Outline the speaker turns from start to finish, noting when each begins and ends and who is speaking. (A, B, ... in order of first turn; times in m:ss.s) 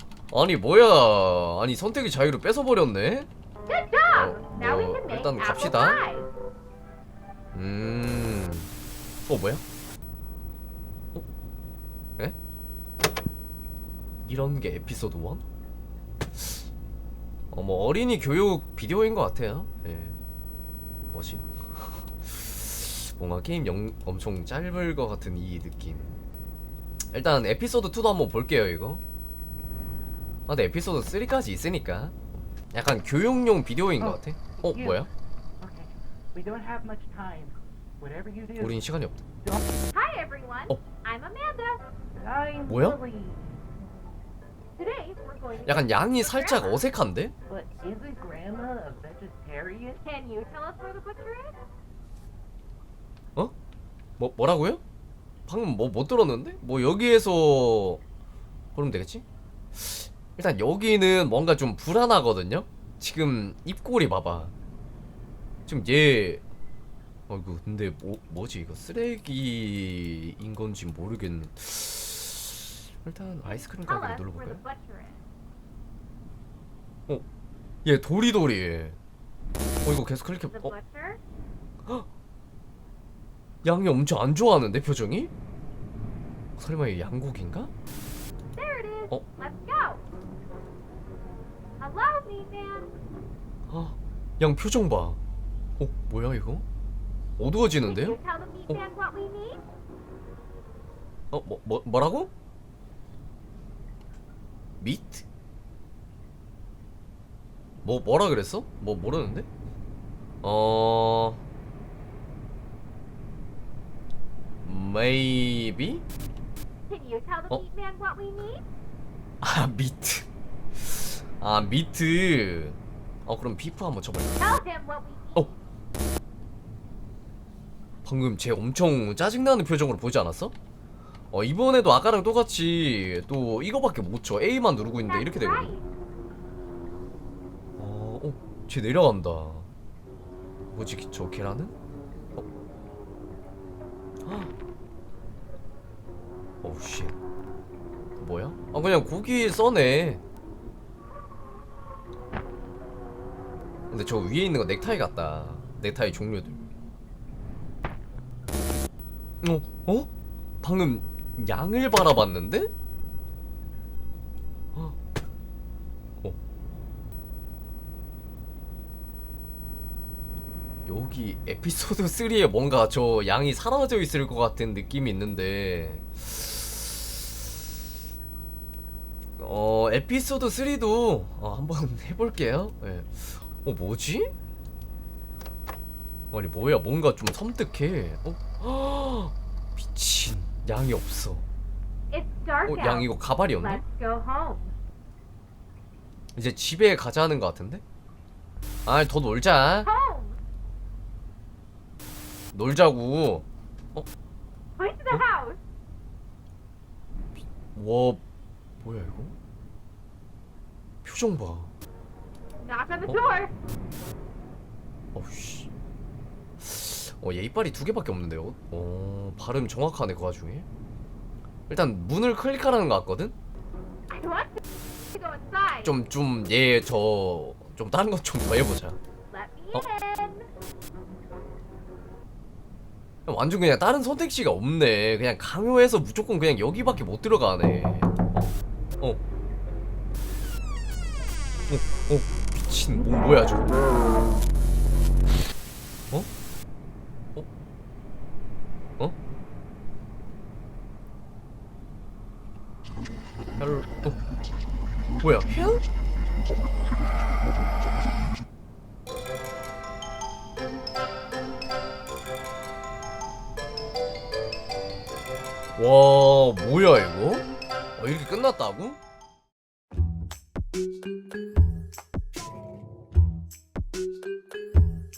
0:00.3-0:03.3 A
0:03.7-0:06.3 B
0:04.1-0:06.0 A
0:07.5-0:08.7 A
0:09.3-0:09.6 A
0:14.3-0:15.4 A
0:16.4-0:16.6 A
0:17.5-0:20.2 A
0:21.1-0:26.2 A
0:27.1-0:29.0 A
0:30.5-0:32.1 A
0:32.7-0:35.1 A
0:34.0-0:35.1 C
0:35.6-0:38.8 C
0:38.6-0:39.2 A
0:39.4-0:39.7 C
0:39.9-0:41.8 B
0:42.2-0:43.6 C
0:42.7-0:43.0 A
0:44.8-0:46.8 B
0:45.6-0:47.3 A
0:47.5-0:50.0 C
0:50.0-0:51.5 B
0:54.2-0:54.8 A
0:55.5-0:58.0 A
0:58.7-1:04.5 A
1:05.7-1:06.4 A
1:07.3-1:14.6 A
1:13.4-1:15.2 B
1:17.8-1:19.0 A
1:19.8-1:20.7 A
1:20.5-1:21.2 B
1:23.6-1:25.3 A
1:26.6-1:27.7 A
1:28.5-1:30.0 B
1:31.8-1:32.9 B
1:33.7-1:35.2 A
1:35.8-1:36.6 A
1:37.4-1:38.2 A
1:37.8-1:39.6 B
1:41.3-1:42.3 A
1:44.8-1:45.2 A
1:47.8-1:49.5 A
1:50.4-1:51.4 A
1:54.6-1:56.0 A
1:56.9-1:58.6 B
1:59.4-2:04.6 A
2:04.4-2:05.6 B
2:08.0-2:10.5 A
2:11.3-2:15.7 A
2:15.0-2:15.8 B
2:17.8-2:19.7 A
2:20.7-2:21.7 A
2:24.2-2:24.5 A
2:26.6-2:27.2 A
2:28.2-2:30.2 A
2:33.9-2:36.6 A
2:39.4-2:40.1 A
2:40.6-2:42.7 A
2:50.8-2:57.2 A
2:59.4-3:04.3 A
3:06.3-3:11.4 A
3:12.1-3:14.7 B
3:12.6-3:13.8 A
3:16.3-3:17.8 A
3:18.8-3:19.9 A
3:19.8-3:20.4 B
3:22.5-3:24.1 A
3:24.8-3:25.6 B
3:27.7-3:28.2 A
3:28.8-3:29.3 A
3:31.0-3:31.7 A
3:32.6-3:33.5 B
3:35.1-3:35.7 A
3:36.6-3:40.7 A
3:41.7-3:43.3 A
3:44.1-3:46.0 B
3:45.8-3:49.0 A
3:49.3-3:50.5 B
3:53.3-3:59.2 A
4:01.7-4:03.9 A
4:13.6-4:14.2 A
4:15.2-4:15.8 A
4:25.8-4:29.0 A